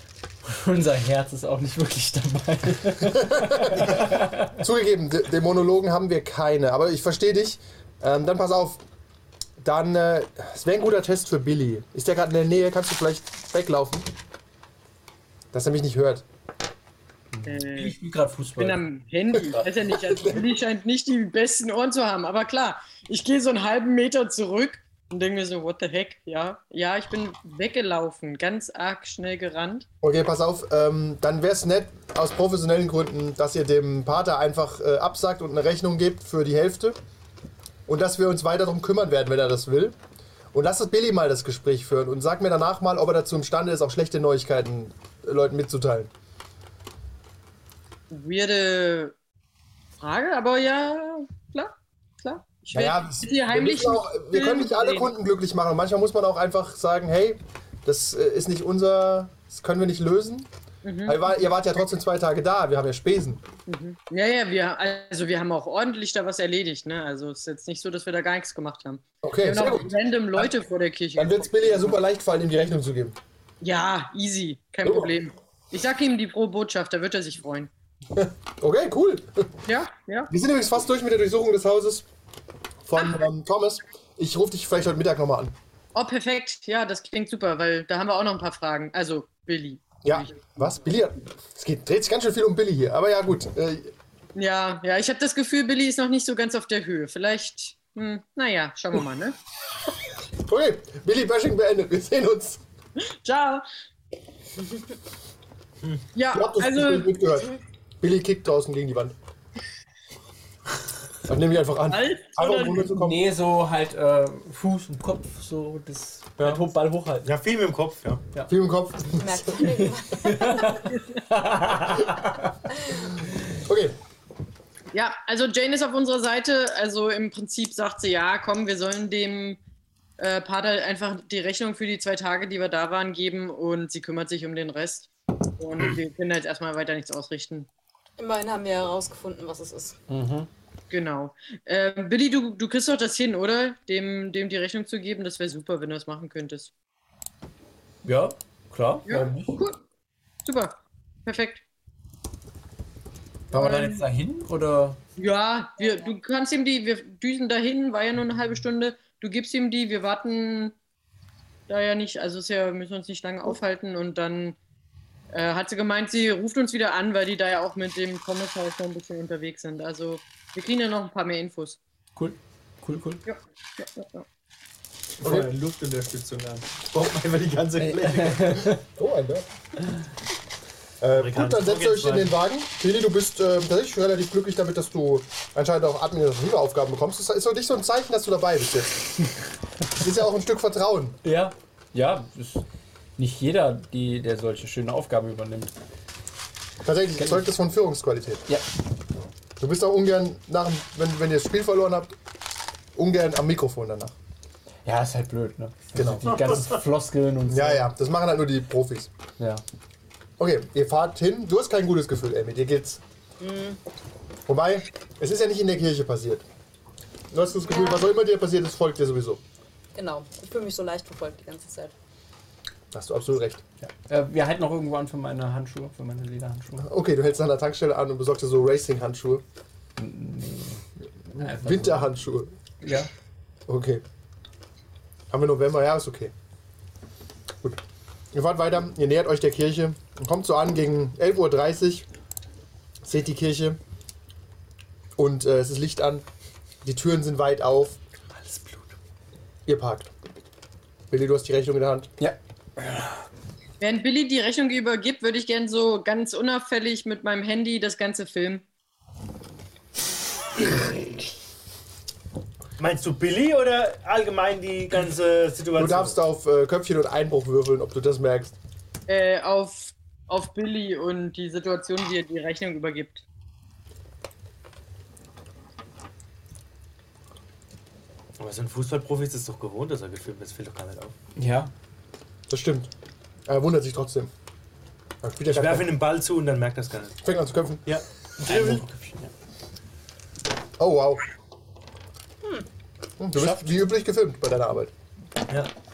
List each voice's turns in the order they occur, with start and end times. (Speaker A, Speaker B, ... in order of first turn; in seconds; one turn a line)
Speaker A: 0.4-4.6
Speaker B: 3.1-8.8
Speaker B: 9.6-14.1
Speaker B: 15.5-16.2
Speaker A: 17.3-18.9
Speaker C: 17.4-17.9
Speaker C: 18.5-29.9
Speaker B: 19.4-20.4
Speaker B: 30.0-37.0
Speaker B: 37.9-40.0
Speaker B: 40.5-46.1
Speaker C: 48.1-49.1
Speaker C: 50.0-55.1
Speaker B: 52.7-60.5
Speaker C: 60.8-61.3
Speaker B: 61.0-63.4
Speaker C: 63.7-72.0
Speaker B: 69.2-70.5
Speaker B: 71.1-73.2
Speaker C: 73.6-77.7
Speaker B: 74.8-75.1
Speaker B: 78.1-79.6
Speaker C: 79.7-80.3
Speaker B: 80.3-82.1
Speaker B: 82.8-85.5
Speaker C: 85.9-90.4
Speaker B: 90.0-93.9
Speaker C: 94.3-99.4
Speaker B: 100.4-102.6
Speaker C: 103.1-103.7
Speaker C: 106.1-107.1
Speaker B: 106.3-109.1
Speaker B: 111.3-113.2
Speaker C: 111.9-112.9
Speaker A: 112.9-117.3
Speaker B: 116.4-116.6
Speaker D: 117.2-118.2
Speaker B: 118.5-119.7
Speaker E: 119.2-120.8
Speaker A: 119.7-122.4
Speaker C: 120.9-121.2
Speaker B: 123.5-124.0
Speaker C: 124.9-129.6
Speaker C: 130.2-137.7
Speaker E: 138.2-140.0
Speaker A: 140.1-140.5
Speaker C: 140.9-146.7
Speaker A: 148.0-149.6
Speaker C: 149.1-149.8
Speaker C: 150.4-151.6
Speaker A: 153.5-155.0
Speaker C: 153.5-154.0
Speaker C: 155.2-160.7
Speaker C: 161.7-164.6
Speaker C: 165.3-171.8
Speaker A: 172.2-173.2
Speaker C: 173.3-174.3
Speaker B: 175.2-175.5
Speaker D: 175.2-178.7
Speaker A: 177.8-178.8
Speaker B: 178.9-179.4
Speaker B: 181.0-189.1
Speaker D: 181.2-182.4
Speaker B: 189.9-191.2
Speaker A: 191.2-192.6
Speaker A: 193.2-195.7
Speaker B: 196.8-198.5
Speaker A: 197.2-197.5
Speaker B: 199.6-202.2
Speaker B: 202.9-204.2
Speaker A: 204.8-207.9
Speaker B: 205.9-206.8
Speaker B: 207.5-209.1
Speaker B: 210.4-213.0
Speaker E: 213.4-213.8
Speaker B: 214.5-216.4
Speaker B: 217.3-219.4
Speaker E: 217.6-218.1
Speaker E: 219.9-221.9
Speaker B: 222.9-223.6
Speaker A: 223.8-226.9
Speaker B: 226.8-229.4
Speaker A: 230.0-232.0
Speaker B: 231.3-232.5
Speaker A: 232.8-233.1
Speaker B: 233.7-234.0
Speaker B: 235.3-236.3
Speaker B: 238.3-242.1
Speaker B: 243.0-243.8
Speaker B: 245.2-246.3
Speaker B: 246.8-248.0
Speaker D: 248.3-248.9
Speaker B: 249.7-250.1
Speaker B: 251.1-252.1
Speaker A: 252.2-253.1
Speaker C: 253.8-258.6
Speaker D: 262.8-266.2
Speaker B: 265.7-268.6
Speaker C: 269.1-273.2
Speaker D: 278.4-281.1
Speaker A: 281.4-281.7
Speaker B: 282.5-282.9
Speaker B: 283.5-284.3
Speaker B: 285.2-286.0
Speaker D: 285.5-287.2
Speaker B: 287.2-287.9
Speaker B: 288.4-288.8
Speaker A: 288.4-289.3
Speaker B: 290.8-291.2
Speaker B: 293.2-294.9
Speaker A: 293.3-293.8